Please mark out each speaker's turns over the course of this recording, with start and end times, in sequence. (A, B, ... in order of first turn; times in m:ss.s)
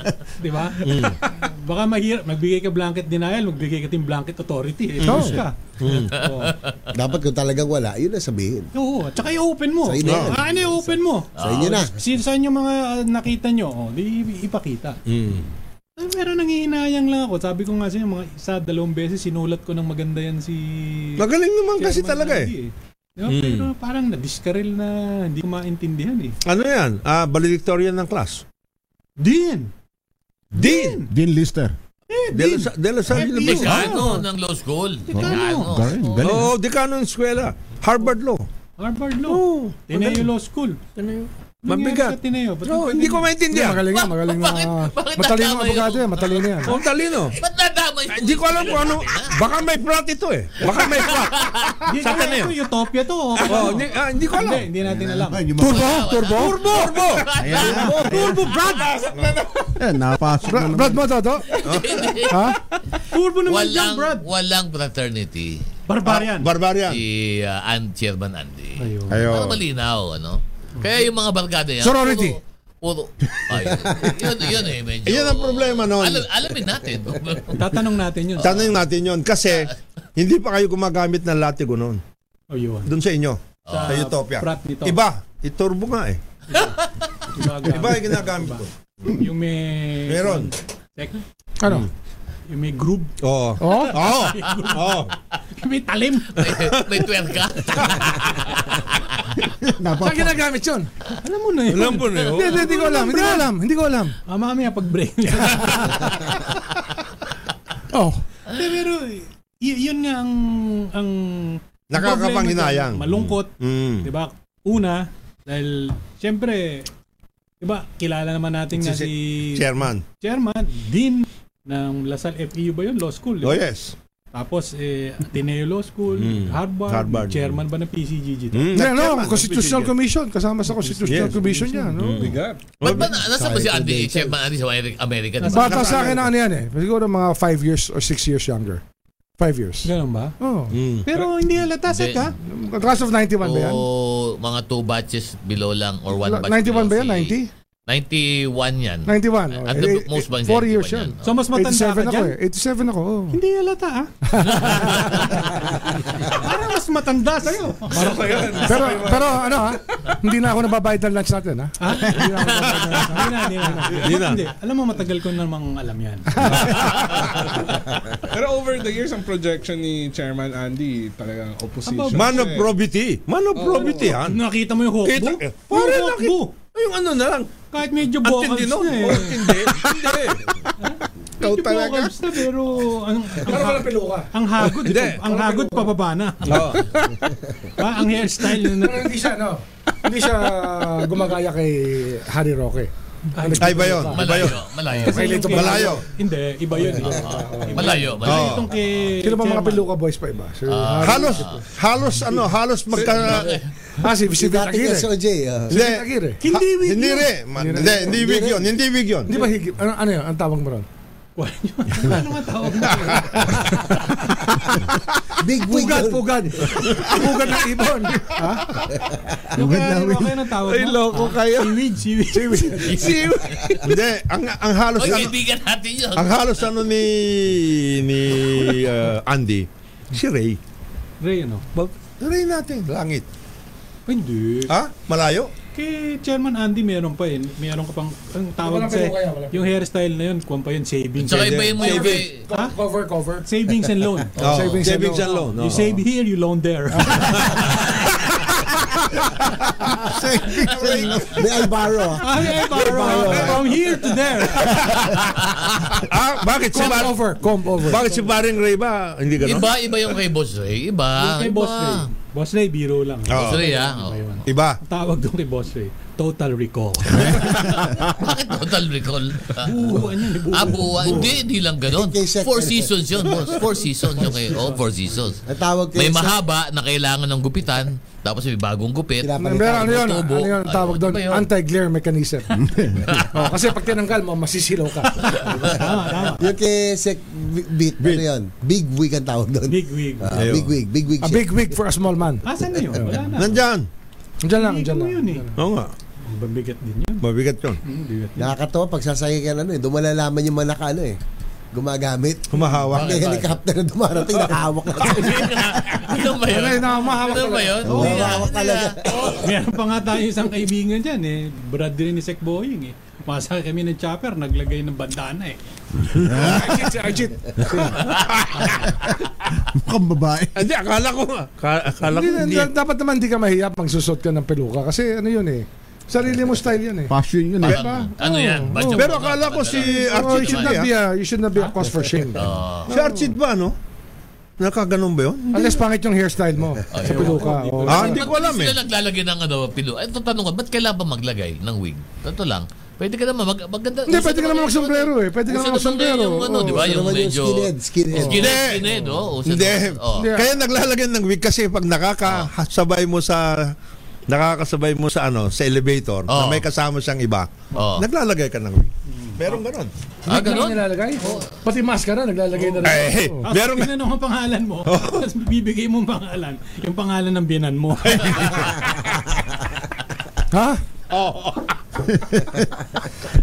0:00.4-0:06.5 A
0:00.8-0:01.2 B
0:05.0-0:06.2 B
0:05.0-0:05.4 C
0:06.9-0:08.7 D
0:08.7-0:15.0 A
0:09.8-0:11.9 D
0:10.0-0:10.4 B
0:11.4-0:11.8 E
0:15.1-0:15.4 B
0:16.0-0:21.2 A
0:21.2-0:22.5 B
0:21.8-0:26.4 A
0:23.3-0:23.7 B
0:26.4-0:28.4 B
0:29.2-0:29.7 A
0:30.5-0:31.0 B
0:30.6-0:31.1 A
0:31.0-0:31.7 F
0:32.1-0:34.2 A
0:32.3-0:34.0 B
0:33.2-0:36.5 E
0:35.1-0:35.7 A
0:35.1-0:36.5 F
0:36.2-0:38.4 B
0:38.8-0:40.8 A
0:39.3-0:40.3 B
0:41.6-0:43.3 A
0:41.6-0:43.8 B
0:43.5-0:46.7 C
0:43.9-0:49.3 E
0:46.6-0:47.4 B
0:48.1-0:52.5 B
0:50.6-0:51.8 E
0:51.8-0:55.4 A
0:53.5-0:54.7 B
0:54.8-0:56.1 F
0:55.6-0:56.6 C
0:55.6-0:58.3 E
0:56.3-0:57.0 A
0:56.6-0:59.8 B
0:57.4-0:58.3 F
0:57.6-0:59.1 A
0:59.8-1:01.2 F
1:00.4-1:01.5 C
1:01.6-1:02.0 B
1:01.6-1:02.4 E
1:02.2-1:02.6 C
1:02.7-1:04.2 A
1:03.4-1:05.6 E
1:05.9-1:06.5 A
1:06.0-1:07.0 B
1:06.8-1:17.7 E
1:08.8-1:09.2 A
1:09.1-1:09.6 B
1:11.8-1:12.4 C
1:15.0-1:16.3 B
1:17.5-1:18.7 A
1:18.4-1:22.0 B
1:22.5-1:22.9 A
1:22.8-1:26.2 B
1:23.7-1:24.0 E
1:23.7-1:25.0 A
1:26.5-1:31.2 A
1:26.6-1:27.1 E
1:27.6-1:29.2 B
1:30.1-1:30.5 B
1:31.6-1:31.9 C
1:32.5-1:36.8 A
1:33.2-1:35.1 B
1:33.6-1:34.0 C
1:36.4-1:38.8 E
1:39.7-1:40.4 F
1:40.0-1:40.9 C
1:41.2-1:43.5 A
1:41.7-1:42.7 B
1:42.3-1:44.2 C
1:44.3-1:46.5 A
1:47.9-1:48.2 C
1:48.5-1:56.9 A
1:51.9-1:54.1 B
1:57.6-1:59.7 A
1:58.8-2:00.0 B
2:00.2-2:03.6 A
2:03.4-2:03.9 B
2:04.3-2:08.7 A
2:06.1-2:07.5 B
2:08.5-2:09.9 B
2:08.7-2:12.3 C
2:10.7-2:11.9 A
2:11.1-2:11.4 B
2:12.0-2:13.2 B
2:12.2-2:12.7 G
2:12.8-2:16.0 E
2:12.9-2:14.3 D
2:15.4-2:16.1 A
2:15.5-2:18.8 C
2:15.6-2:16.3 B
2:19.4-2:20.8 C
2:19.8-2:20.3 A
2:20.7-2:21.2 B
2:21.0-2:22.3 A
2:21.9-2:22.3 E
2:22.4-2:23.8 C
2:23.4-2:27.4 E
2:26.1-2:27.5 C
2:27.9-2:31.3 E
2:29.0-2:33.4 C
2:31.2-2:32.4 A
2:33.3-2:34.1 A
2:34.3-2:35.2 C
2:34.6-2:35.0 E
2:34.7-2:38.9 A
2:37.9-2:39.8 G
2:38.5-2:44.1 C
2:41.8-2:46.7 A
2:43.9-2:44.5 B
2:46.4-2:47.1 C
2:46.4-2:47.4 B
2:48.3-2:52.7 G
2:51.8-2:52.5 A
2:52.1-2:54.4 B
2:53.5-2:54.1 G
2:53.7-2:56.5 A
2:55.0-2:57.5 B
2:57.7-2:59.9 A
2:58.2-3:00.6 B
3:00.8-3:07.1 A
3:01.4-3:02.3 B
3:03.4-3:04.3 C
3:04.6-3:05.2 B
3:05.0-3:05.9 C
3:06.4-3:07.2 B
3:07.8-3:09.1 A
3:08.7-3:16.0 C
3:13.3-3:14.2 A
3:13.6-3:14.6 B
3:14.1-3:15.6 E
3:15.0-3:19.9 A
3:15.5-3:16.0 B
3:16.7-3:17.9 C
3:17.1-3:17.5 D
3:17.7-3:18.6 E
3:18.2-3:18.7 B
3:19.2-3:21.6 C
3:20.7-3:21.6 E
3:21.0-3:23.6 B
3:23.0-3:23.3 C
3:23.3-3:23.6 E
3:24.0-3:25.1 C
3:24.3-3:25.7 D
3:25.7-3:26.4 C
3:25.7-3:29.3 B
3:26.4-3:27.3 A
3:27.6-3:28.2 C
3:27.8-3:28.7 D
3:29.3-3:30.9 C
3:31.4-3:34.1 A
3:32.9-3:33.5 B
3:35.4-3:36.9 D
3:35.6-3:38.7 C
3:39.2-3:39.6 D
3:39.5-3:43.7 A
3:39.6-3:40.5 F
3:40.6-3:41.8 G
3:42.3-3:43.4 C
3:43.8-3:45.4 B
3:45.0-3:46.6 E
3:46.1-3:50.6 B
3:51.2-3:51.7 A
3:51.8-3:53.2 B
3:54.1-3:54.7 A
3:54.7-3:55.5 B
3:55.7-4:02.7 A
3:58.6-3:59.7 C
4:01.2-4:02.4 E
4:01.3-4:02.2 B
4:01.8-4:03.4 C
4:03.4-4:07.9 A
4:04.4-4:05.3 C
4:04.4-4:06.0 B
4:07.2-4:07.9 B
4:09.4-4:11.4 B
4:10.8-4:11.1 F
4:11.2-4:13.8 D
4:12.2-4:14.8 A
4:12.9-4:13.6 B
4:14.6-4:15.1 B
4:15.8-4:17.2 B
4:16.7-4:18.1 C
4:17.8-4:19.8 B
4:19.4-4:22.0 E
4:21.2-4:27.7 A
4:23.3-4:23.6 B
4:23.4-4:24.2 E
4:24.4-4:24.8 B
4:27.2-4:28.0 B
4:27.4-4:35.4 E
4:29.5-4:31.3 A
4:31.9-4:33.6 D
4:34.2-4:34.8 A
4:35.5-4:36.4 D
4:35.9-4:41.5 E
4:39.2-4:40.0 D
4:39.4-4:42.6 C
4:43.3-4:45.6 C
4:45.5-4:51.6 D
4:45.7-4:46.5 A
4:48.0-4:48.2 B
4:49.7-4:50.3 A
4:50.3-4:50.7 B
4:51.2-4:53.2 C
4:52.4-4:53.6 A
4:53.3-4:53.8 B
4:54.4-4:55.6 C
4:54.5-4:55.4 A
4:55.6-4:55.9 B
4:56.2-4:57.2 A
4:57.2-4:57.8 B
4:57.8-4:58.5 A
4:58.4-5:01.2 D
5:01.7-5:05.9 D
5:02.5-5:03.2 B
5:02.9-5:03.6 E
5:05.0-5:09.2 E
5:06.4-5:08.3 C
5:07.8-5:09.4 D
5:09.1-5:16.6 A
5:16.2-5:16.8 F
5:16.3-5:18.0 C
5:17.6-5:17.9 F
5:19.8-5:20.6 F
5:20.5-5:22.7 B
5:22.0-5:27.1 C
5:27.1-5:27.9 F
5:27.6-5:28.0 B
5:27.6-5:30.8 E
5:27.7-5:29.2 C
5:28.9-5:30.9 B
5:29.9-5:33.3 C
5:31.6-5:31.8 A
5:32.4-5:32.9 E
5:32.9-5:33.8 B
5:34.6-5:35.7 B
5:35.5-5:38.2 C
5:36.9-5:50.3 E
5:37.0-5:38.2 A
5:37.8-5:38.8 B
5:44.0-5:47.0 C
5:46.6-5:48.6 D
5:48.3-5:48.8 B
5:49.4-5:53.7 B
5:50.2-5:50.6 C
5:54.3-5:59.9 B
5:56.3-5:56.6 E
5:57.7-5:58.1 E
5:59.1-5:59.6 A
6:00.2-6:03.4 C
6:00.3-6:01.5 E
6:02.8-6:03.9 B
6:03.4-6:08.7 A
6:04.8-6:05.3 B
6:08.1-6:08.9 B
6:10.5-6:10.8 C
6:12.2-6:12.6 B